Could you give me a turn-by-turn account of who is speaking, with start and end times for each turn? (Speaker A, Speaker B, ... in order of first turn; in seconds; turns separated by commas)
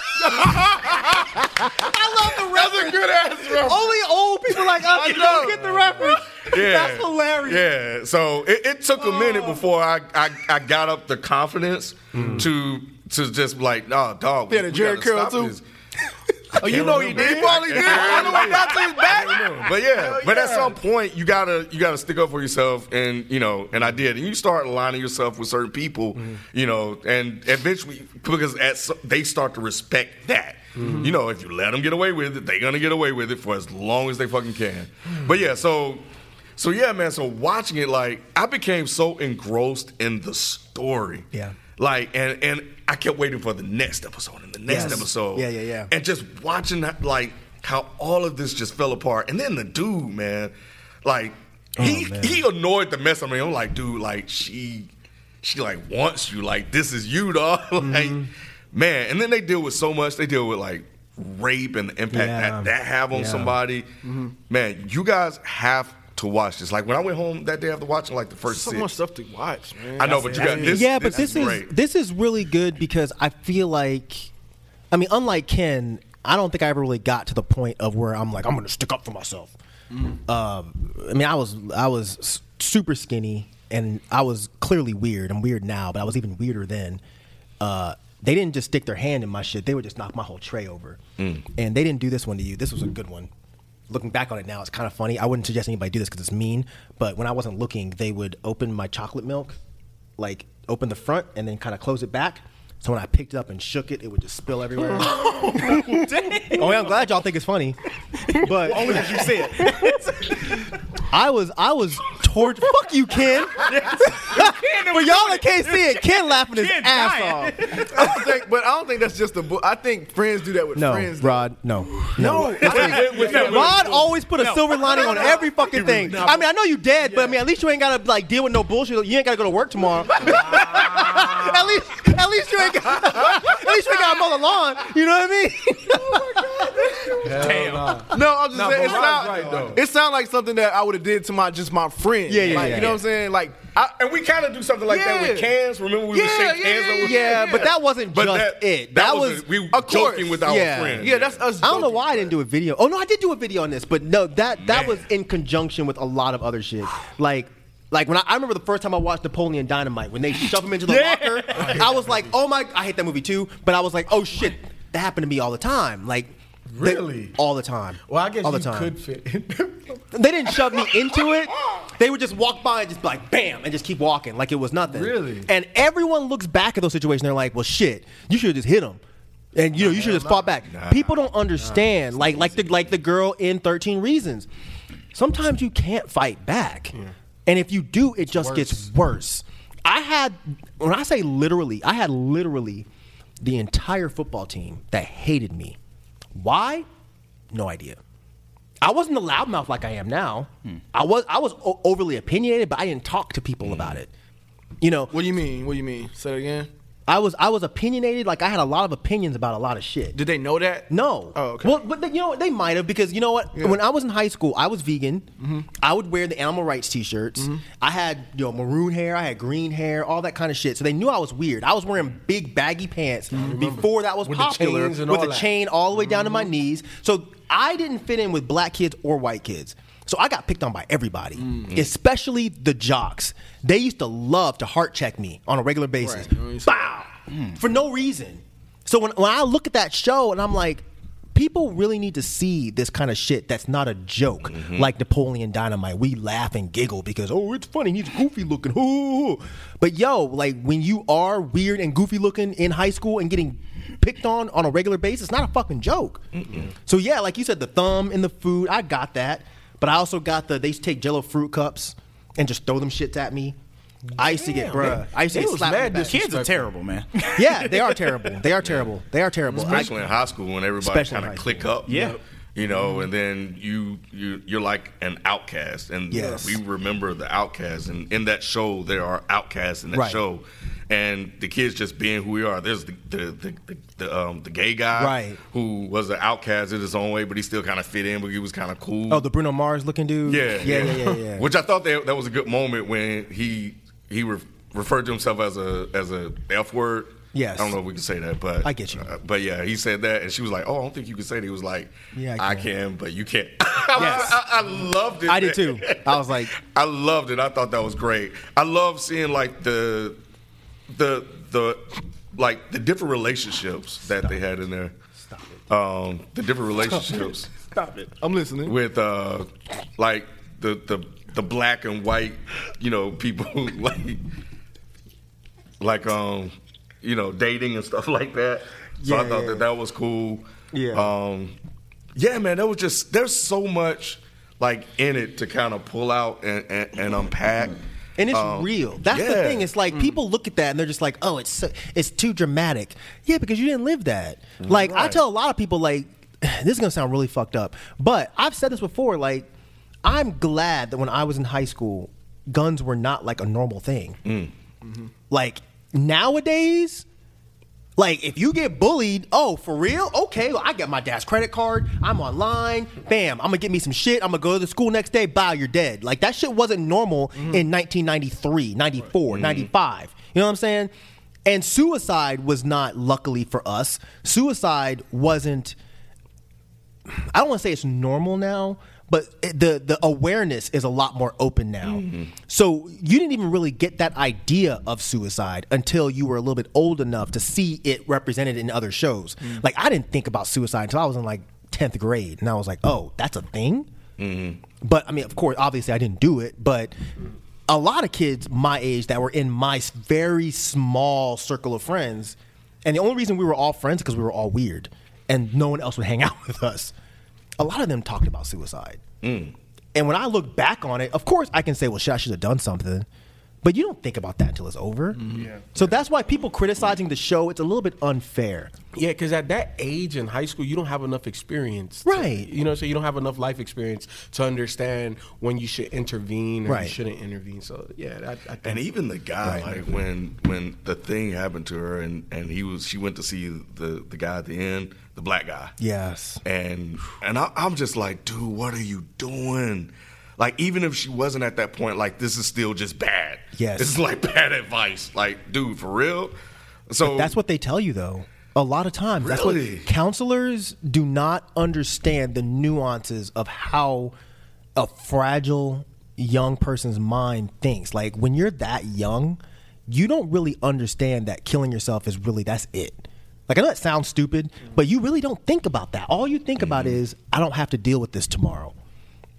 Speaker A: 0.4-1.1, Speaker B: 1.2-7.7, Speaker A: 2.5-3.8, Speaker A: 4.8-6.0, Speaker C: 6.3-15.6, Speaker D: 12.1-12.5, Speaker A: 14.5-15.6, Speaker A: 16.5-19.7, Speaker C: 16.5-36.0, Speaker D: 16.6-20.7, Speaker D: 30.8-31.1, Speaker C: 36.6-54.9, Speaker B: 44.7-45.9, Speaker B: 51.8-52.4, Speaker C: 55.4-63.9, Speaker B: 57.8-58.3, Speaker B: 62.1-63.6, Speaker A: 64.0-64.3, Speaker C: 64.5-68.9, Speaker A: 68.5-71.4, Speaker C: 70.0-71.7, Speaker B: 70.4-74.3, Speaker B: 74.9-79.5, Speaker B: 80.1-87.0, Speaker B: 87.6-91.0, Speaker C: 91.2-91.5, Speaker B: 91.5-93.3, Speaker B: 93.9-99.6, Speaker B: 100.2-118.1, Speaker E: 105.5-106.8, Speaker E: 109.6-110.0, Speaker E: 113.7-118.1, Speaker A: 117.9-124.1, Speaker B: 120.8-137.3, Speaker D: 122.4-123.9, Speaker C: 122.4-124.0, Speaker E: 123.0-123.7, Speaker E: 124.4-125.1, Speaker A: 124.7-125.4, Speaker D: 125.1-125.4, Speaker A: 125.9-126.3, Speaker D: 137.2-139.8, Speaker C: 137.4-137.9, Speaker A: 137.4-143.9, Speaker C: 139.2-139.5, Speaker B: 142.3-143.0, Speaker C: 142.6-142.9, Speaker C: 143.9-152.1, Speaker A: 144.9-145.5, Speaker A: 146.1-147.6, Speaker B: 147.0-149.5, Speaker A: 149.7-152.1, Speaker B: 150.4-168.9, Speaker C: 154.7-155.0, Speaker D: 161.5-162.2, Speaker D: 166.7-167.4, Speaker D: 168.1-170.0, Speaker B: 170.1-179.0, Speaker D: 174.9-175.5, Speaker B: 179.6-184.5, Speaker D: 179.8-180.5, Speaker C: 180.6-181.2, Speaker B: 185.1-186.9, Speaker B: 187.4-192.9, Speaker D: 188.4-188.8, Speaker B: 193.4-195.8, Speaker B: 196.3-196.9, Speaker B: 197.5-198.0, Speaker B: 198.8-204.1, Speaker C: 203.6-204.0, Speaker B: 204.8-205.1, Speaker A: 205.1-206.7, Speaker B: 207.1-210.2, Speaker A: 210.1-211.8, Speaker B: 210.9-263.6, Speaker A: 215.4-215.7, Speaker D: 223.3-225.5, Speaker A: 231.4-231.7, Speaker A: 236.0-236.8, Speaker C: 244.5-244.9, Speaker C: 256.3-256.7, Speaker B: 264.1-266.2, Speaker D: 264.2-266.7, Speaker E: 266.0-268.3, Speaker B: 267.4-269.9, Speaker C: 268.6-268.9, Speaker A: 269.5-269.9, Speaker C: 269.5-272.0, Speaker B: 270.8-271.7, Speaker E: 271.9-272.2, Speaker C: 272.5-289.2, Speaker B: 276.1-276.6, Speaker B: 279.9-280.2, Speaker B: 284.9-285.4, Speaker B: 289.1-291.5, Speaker C: 290.2-310.2, Speaker B: 297.3-297.8, Speaker B: 298.6-299.1, Speaker B: 302.1-302.7, Speaker B: 303.9-304.4, Speaker B: 305.2-306.5, Speaker C: 310.9-314.9, Speaker B: 315.2-315.6, Speaker C: 315.7-317.5, Speaker A: 317.9-318.8, Speaker C: 318.6-324.2, Speaker C: 325.8-331.5, Speaker B: 329.0-329.7, Speaker B: 330.7-331.1, Speaker C: 332.1-337.8, Speaker B: 338.2-349.5, Speaker C: 338.3-339.7, Speaker C: 344.6-345.2, Speaker B: 350.0-354.2, Speaker C: 354.2-354.5, Speaker B: 355.3-357.0, Speaker B: 358.0-370.9, Speaker C: 369.3-369.7, Speaker B: 371.5-375.8, Speaker B: 377.1-393.9, Speaker C: 381.8-382.3, Speaker C: 394.2-394.6, Speaker B: 394.8-396.9, Speaker B: 397.7-406.9, Speaker B: 407.6-409.0, Speaker C: 409.2-409.5, Speaker B: 409.9-413.1, Speaker B: 413.6-418.7, Speaker D: 415.2-415.7, Speaker D: 418.9-428.9, Speaker B: 422.0-422.5, Speaker B: 426.6-427.0, Speaker C: 428.6-435.7, Speaker B: 429.4-429.7, Speaker D: 429.4-429.9, Speaker B: 435.8-436.4, Speaker C: 436.4-446.4, Speaker B: 443.5-444.0, Speaker C: 446.9-447.4, Speaker B: 447.0-454.1, Speaker C: 449.2-449.9, Speaker B: 454.8-468.8, Speaker C: 466.6-467.0